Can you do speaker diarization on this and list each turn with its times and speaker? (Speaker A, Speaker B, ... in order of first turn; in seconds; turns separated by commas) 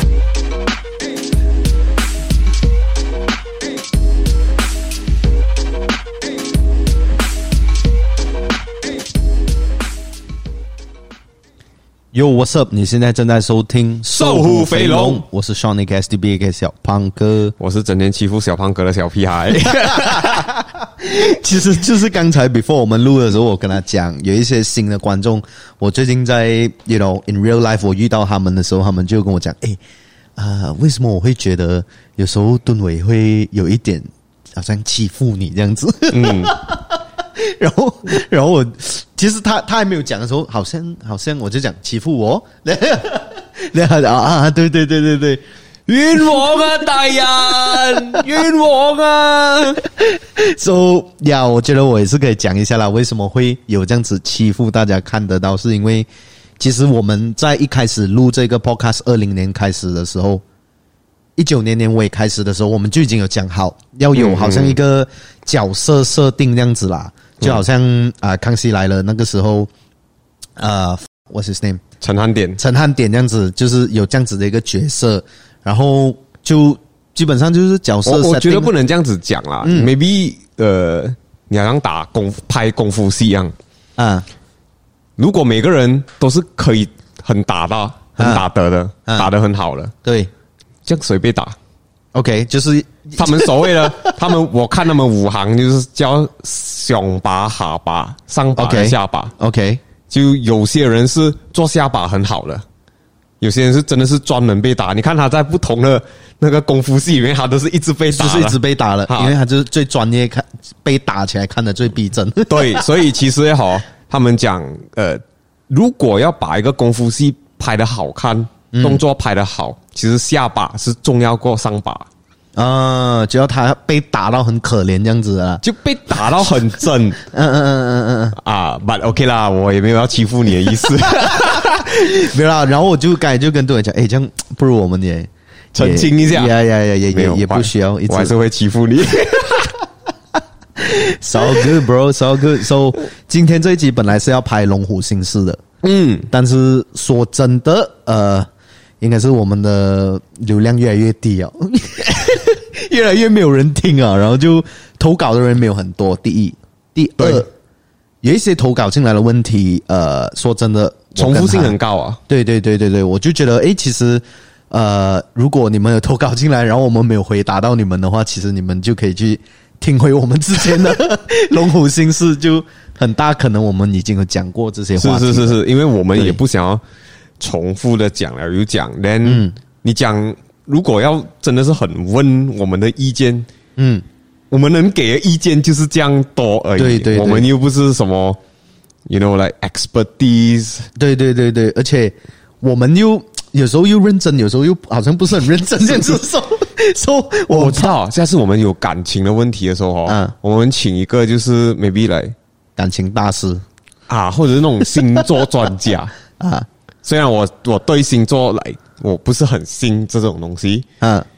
Speaker A: 12.1-17.6, Speaker B: 14.1-15.2, Speaker B: 17.6-20.4, Speaker A: 19.6-29.8, Speaker A: 30.4-45.4, Speaker B: 36.1-36.5, Speaker B: 45.9-49.8, Speaker A: 46.3-46.6, Speaker A: 47.3-48.3, Speaker A: 49.8-56.1, Speaker A: 56.6-60.4, Speaker A: 61.4-69.7, Speaker B: 64.1-64.8, Speaker A: 70.6-71.8, Speaker B: 72.0-72.6, Speaker A: 72.6-78.7, Speaker B: 78.0-83.5, Speaker A: 79.6-79.9, Speaker A: 84.0-84.3, Speaker B: 85.2-89.9, Speaker A: 88.2-88.4, Speaker A: 90.0-90.3, Speaker B: 90.9-91.6, Speaker A: 92.1-94.2, Speaker B: 93.2-99.3, Speaker A: 98.6-99.8, Speaker B: 100.1-102.7, Speaker B: 103.4-109.3, Speaker A: 108.1-112.9, Speaker B: 112.5-122.1, Speaker A: 118.7-119.0, Speaker A: 122.6-125.6, Speaker B: 125.6-127.2, Speaker A: 127.2-128.4, Speaker B: 128.4-132.2, Speaker A: 131.1-138.3, Speaker B: 135.7-136.5, Speaker B: 137.1-139.7, Speaker A: 140.8-145.6, Speaker B: 145.8-146.3, Speaker A: 146.3-148.5, Speaker A: 149.0-157.5, Speaker B: 157.2-157.5, Speaker A: 158.2-161.8, Speaker B: 161.2-162.2, Speaker A: 162.3-175.6, Speaker B: 175.0-176.8, Speaker B: 177.4-183.5, Speaker A: 179.2-179.6, Speaker A: 183.8-184.1, Speaker B: 184.5-188.4, Speaker A: 186.8-187.5, Speaker B: 189.1-190.9, Speaker A: 191.0-198.0, Speaker B: 197.5-202.3, Speaker A: 200.1-200.3, Speaker A: 202.8-203.6, Speaker B: 204.1-206.2, Speaker A: 206.4-206.7, Speaker B: 207.0-210.9, Speaker A: 211.0-211.3